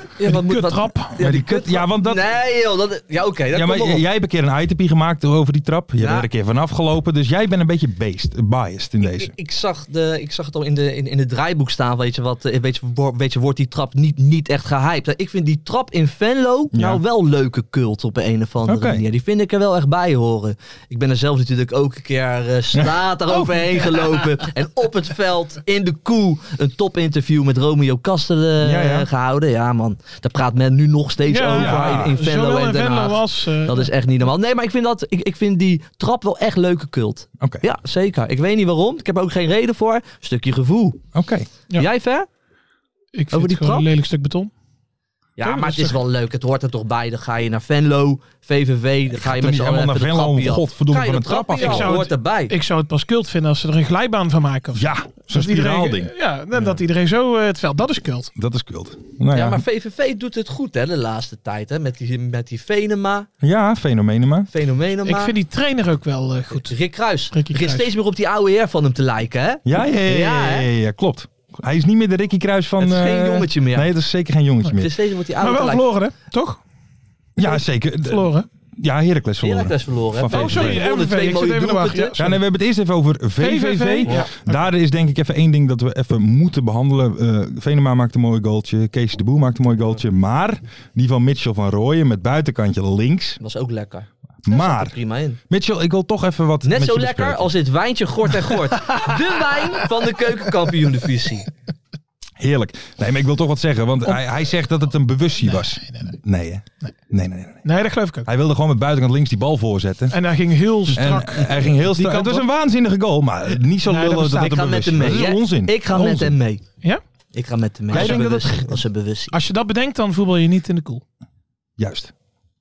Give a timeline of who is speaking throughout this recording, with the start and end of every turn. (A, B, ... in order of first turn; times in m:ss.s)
0:00.2-0:04.0 A
0:00.2-0:01.2 B
0:01.2-0:02.2 C
0:03.5-0:09.3 C
0:06.0-0:06.3 A
0:09.0-0:41.0 A
0:16.7-0:17.0 C
0:18.6-0:19.0 C
0:22.8-0:24.0 C
0:28.6-0:29.1 C
0:31.3-0:33.9 B
0:31.5-0:32.2 C
0:41.1-0:41.5 C
0:41.7-0:42.3 A
0:43.1-0:44.5 B
0:43.3-0:43.9 A
0:45.4-0:52.5 A
0:45.4-0:46.0 B
0:49.1-0:52.0 C
0:51.6-0:58.3 B
0:54.8-0:56.8 C
0:58.3-0:59.6 C
0:59.3-1:03.3 A
1:03.4-1:04.5 C
1:04.5-1:05.3 A
1:05.0-1:06.7 B
1:06.5-1:10.7 A
1:07.3-1:07.9 B
1:09.6-1:14.9 C
1:12.8-1:13.9 A
1:14.7-1:15.8 A
1:15.4-1:16.6 B
1:17.4-1:20.9 C
1:17.4-1:18.5 B
1:19.4-1:22.2 A
1:20.3-1:22.4 B
1:22.2-1:33.4 C
1:23.4-1:24.7 B
1:33.4-1:35.4 A
1:34.4-1:35.0 C
1:35.5-1:37.5 C
1:36.6-1:41.5 A
1:42.4-1:47.6 C
1:45.4-1:46.2 B
1:47.6-1:48.3 B
1:48.2-1:50.2 C
1:50.1-1:52.4 B
1:50.9-1:56.1 C
1:53.8-1:54.8 B
1:54.4-1:56.6 A
1:55.9-1:57.0 B
1:57.3-1:59.3 A
1:57.9-1:58.3 B
1:57.9-1:58.8 C
1:59.3-2:01.0 B
2:01.8-2:02.1 C